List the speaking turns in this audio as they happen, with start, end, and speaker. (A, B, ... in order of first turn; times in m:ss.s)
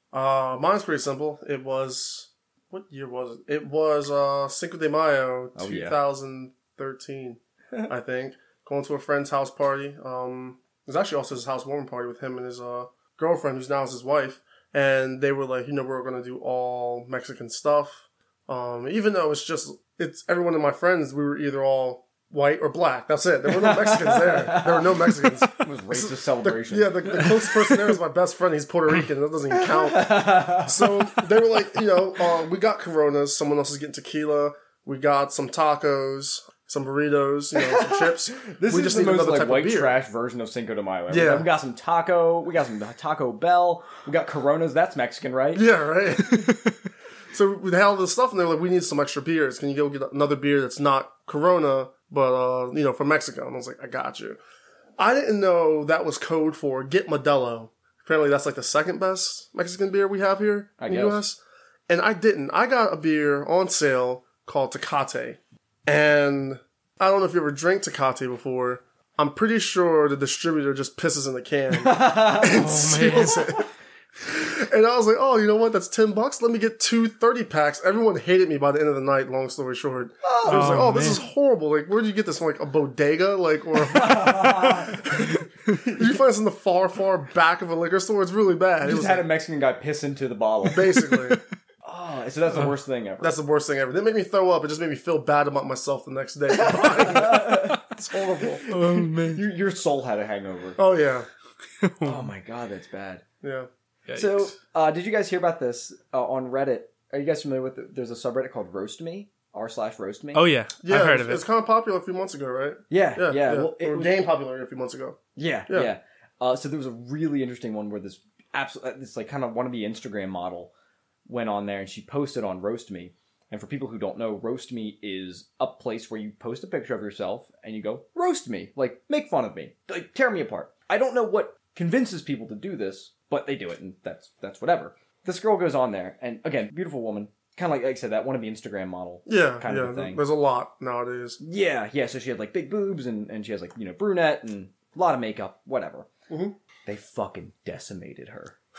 0:00.1-0:40.0 A
0:05.6-0:06.0 B
0:23.5-0:27.6 B
0:29.5-0:31.2 B
0:37.6-0:45.7 B
0:41.1-0:41.5 A
0:45.5-0:46.6 A
0:47.3-0:54.4 A
0:55.0-1:13.6 A
1:00.8-1:01.2 B
1:11.7-1:13.6 B
1:12.5-1:13.5 C
1:14.2-1:29.3 A
1:20.2-1:21.0 B
1:20.4-1:21.2 C
1:23.8-1:25.1 B
1:28.8-1:31.0 B
1:30.6-1:31.4 A
1:31.8-1:33.4 B
1:33.2-1:38.6 A
1:36.5-1:40.8 B
1:38.7-1:39.4 C
1:40.8-1:41.3 A
1:41.8-1:42.2 C
1:42.0-1:43.2 B
1:43.4-1:43.7 A
1:44.1-1:44.5 C
1:44.1-1:50.5 B
1:50.3-1:51.4 C
1:50.8-1:55.9 A
1:52.9-1:54.2 B
1:55.4-2:00.7 B
2:01.2-2:20.2 B
2:19.3-2:21.4 A
2:21.4-2:26.1 B
2:26.3-2:26.5 A
2:26.8-2:28.5 B